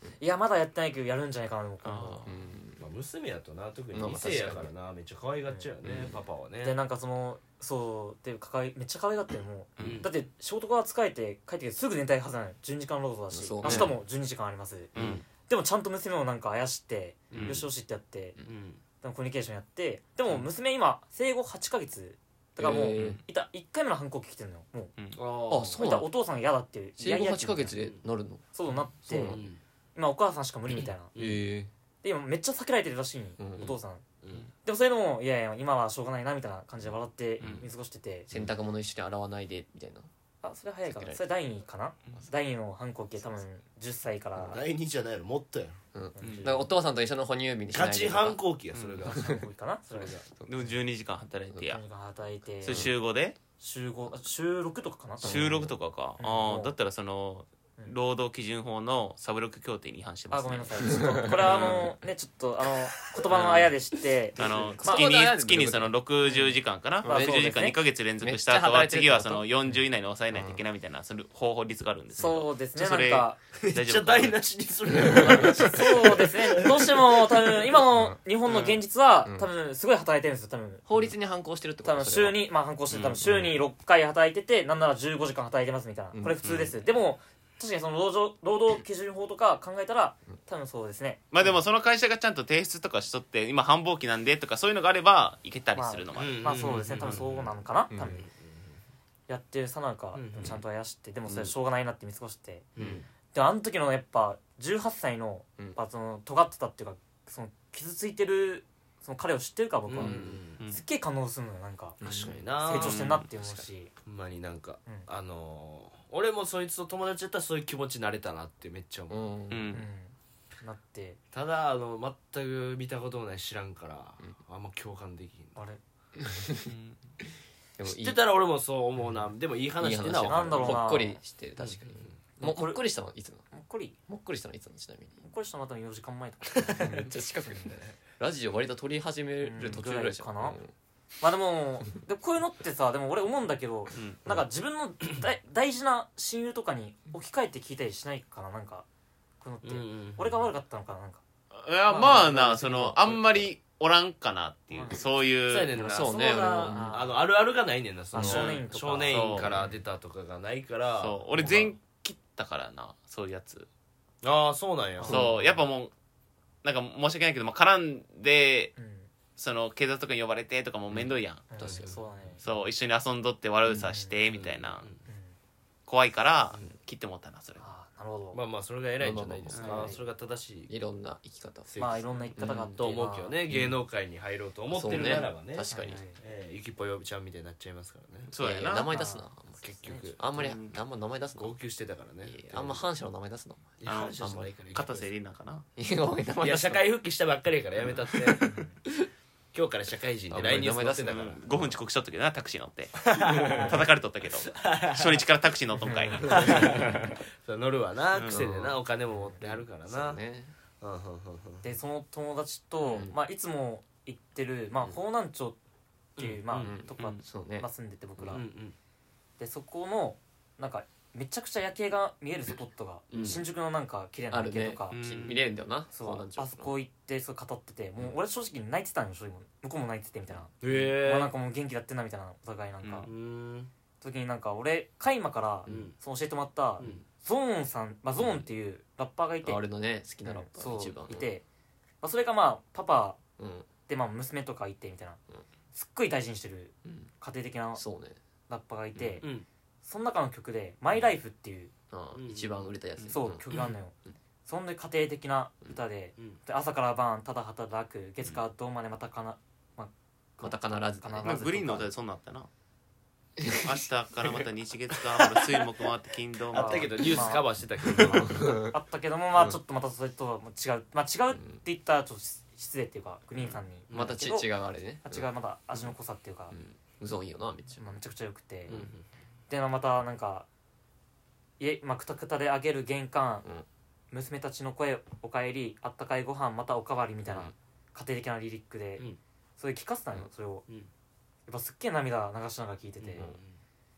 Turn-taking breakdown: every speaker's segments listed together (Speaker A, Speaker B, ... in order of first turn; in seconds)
Speaker A: 0.2-2.3, 6.6-14.9, 15.4-18.4, 19.0-24.9, 25.7-27.8, 28.5-29.4, 29.9-31.1, 32.0-34.0, 34.6-38.3, 40.4-44.6, 46.2-46.6, 49.1-50.2, 51.7-52.9, 53.6-55.6, 56.2-56.8, 60.3-65.2, 67.0-67.8, 72.2-73.4, 75.1-80.8, 81.8-91.2, 95.8-98.3, 99.3-102.7, 103.3-112.0, 112.6-113.9, 119.7-121.2, 130.2-131.2, 132.4-132.8, 133.5-134.0, 135.2-137.1, 139.4-140.6, 141.2-148.9, 149.4-151.2, 151.9-153.2, 154.7-155.0, 155.8-157.2, 158.1-159.4, 165.0-165.6, 168.8-169.1, 171.5-172.4, 173.8-174.2, 175.1-175.3, 177.6-178.4, 179.6-180.0, 181.8-183.4, 185.0-186.2, 188.9-189.3, 189.8-190.1, 198.4-198.8, 205.8-206.8, 211.6-215.6, 216.2-218.5, 219.4-225.0, 225.9-233.1, 234.0-239.6, 240.2-241.4, 242.0-243.2, 243.9-245.2, 245.7-247.8, 248.5-249.3, 249.8-251.7, 253.1-261.9, 266.5-274.5, 275.0-276.6, 277.8-278.8, 279.5-280.5, 281.6-283.5, 284.1-290.7, 291.5-293.3
Speaker B: 1.8-2.3, 9.8-10.1, 13.6-13.9, 15.0-15.2, 17.3-17.6, 37.4-37.6, 46.2-46.5, 48.7-49.0, 50.5-51.8, 52.6-53.4, 55.2-61.9, 63.3-63.7, 64.4-74.4, 78.5-78.8, 82.9-83.2, 86.4-86.8, 91.3-96.5, 112.7-113.3, 119.5-119.8, 126.6-127.0, 151.5-155.7, 158.2-159.6, 161.0-163.7, 165.0-165.9, 166.6-168.7, 169.4-171.8, 172.4-174.9, 175.9-177.6, 179.5-179.9, 188.3-188.9, 190.4-190.8, 193.8-195.7, 201.1-206.7, 208.1-208.5, 224.9-225.4, 232.8-233.1, 261.2-262.5, 263.5-267.1
Speaker C: 2.2-2.8, 3.9-4.7, 5.8-6.2, 13.3-14.0, 15.0-15.2, 22.6-23.2, 25.5-26.1, 27.0-29.4, 31.1-31.7, 33.4-33.8, 38.3-40.1, 40.9-41.2, 45.9-48.4, 52.7-52.9, 55.2-55.7, 60.9-61.9, 63.3-63.7, 64.4-65.9, 67.0-67.6, 68.2-69.8, 70.3-70.6, 75.0-75.4, 77.9-78.2, 80.9-82.5, 83.2-83.5, 86.1-86.4, 97.9-98.2, 102.8-103.0, 110.0-110.4, 112.0-112.4, 119.1-119.8, 126.2-126.7, 127.8-128.2, 129.8-133.4, 134.1-135.2, 136.7-140.7, 155.7-157.0, 158.2-158.4, 179.0-180.0, 180.7-181.7, 182.4-182.9, 183.5-183.8, 184.7-186.0, 188.4-191.5, 192.3-194.5, 195.8-196.8, 198.2-198.4, 200.3-201.4, 208.3-208.8, 209.4-210.5, 212.9-213.2, 216.6-218.4, 224.3-226.7, 235.7-235.9, 238.2-238.4, 239.4-241.3, 243.4-243.7, 247.8-248.2, 249.0-249.2, 251.9-253.5, 260.4-261.9, 263.4-263.8, 268.0-268.7, 273.9-275.3, 276.5-277.8, 287.3-287.5
Speaker D: 2.8-6.8, 9.8-10.1, 17.3-17.6, 18.4-18.8, 25.1-25.8, 27.8-28.0, 29.2-29.6, 31.1-31.4, 34.2-34.5, 44.4-45.8, 46.3-46.6, 47.7-50.3, 73.6-77.3, 96.2-98.8, 100.2-100.6, 102.8-103.1, 109.9-110.6, 112.0-113.1, 114.0-119.2, 121.3-125.6, 127.8-130.9, 131.6-132.2, 149.6-150.4, 155.5-161.7, 164.2-165.2, 170.9-172.3, 174.3-175.0, 178.3-180.7, 181.7-188.3, 189.6-190.3, 191.4-192.8, 193.8-195.1, 196.4-198.6, 199.5-201.4, 203.1-203.8, 204.4-205.2, 206.2-210.2, 210.8-211.7, 216.2-216.7, 218.3-218.8, 223.1-223.4, 230.6-231.3, 233.1-233.7, 235.7-235.9, 236.8-237.1, 249.2-249.5, 252.1-252.7, 266.5-268.6, 273.9-274.2, 278.7-279.1, 293.0-293.6